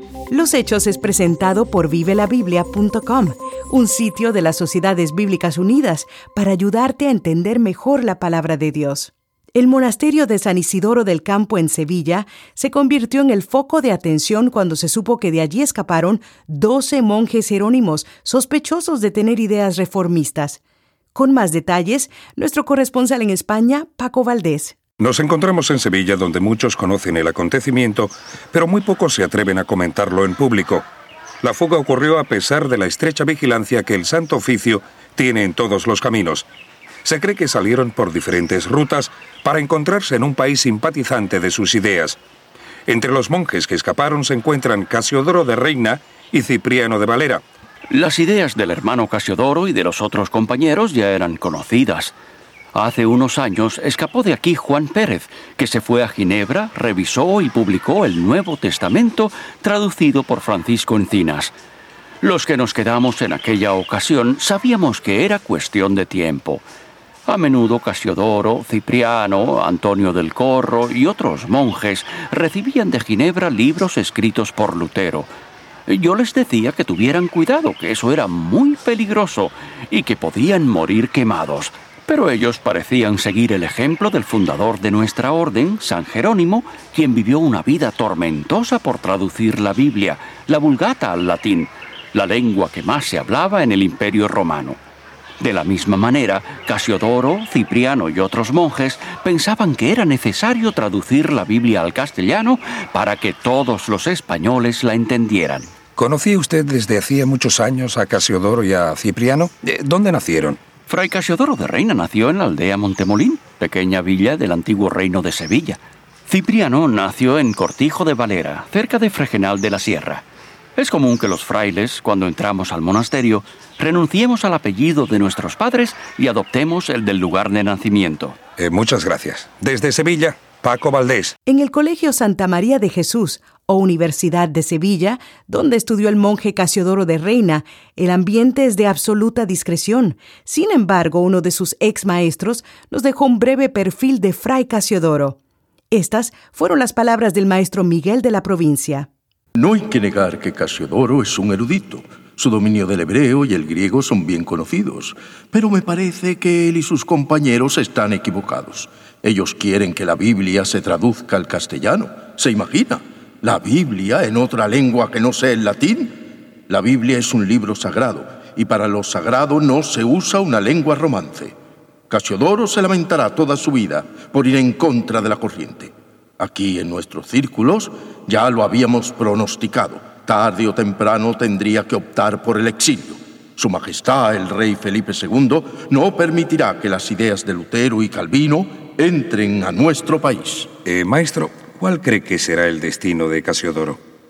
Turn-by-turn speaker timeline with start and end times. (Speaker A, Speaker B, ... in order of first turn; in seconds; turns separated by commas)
Speaker A: 0.3-20.6, Speaker A: 21.1-24.8, Speaker B: 25.0-30.9, Speaker B: 31.4-36.5, Speaker B: 37.0-42.2, Speaker B: 42.9-47.4, Speaker C: 47.9-52.1, Speaker C: 52.7-61.5, Speaker C: 62.2-66.7, Speaker C: 67.3-75.3, Speaker C: 75.9-94.8, Speaker C: 95.4-105.7, Speaker B: 106.0-110.6, Speaker C: 110.9-120.2, Speaker C: 120.8-128.4, Speaker B: 128.6-131.4, Speaker A: 131.5-145.4, Speaker A: 145.9-149.1, Speaker D: 149.6-171.6, Speaker D: 172.1-190.7, Speaker B: 190.8-194.0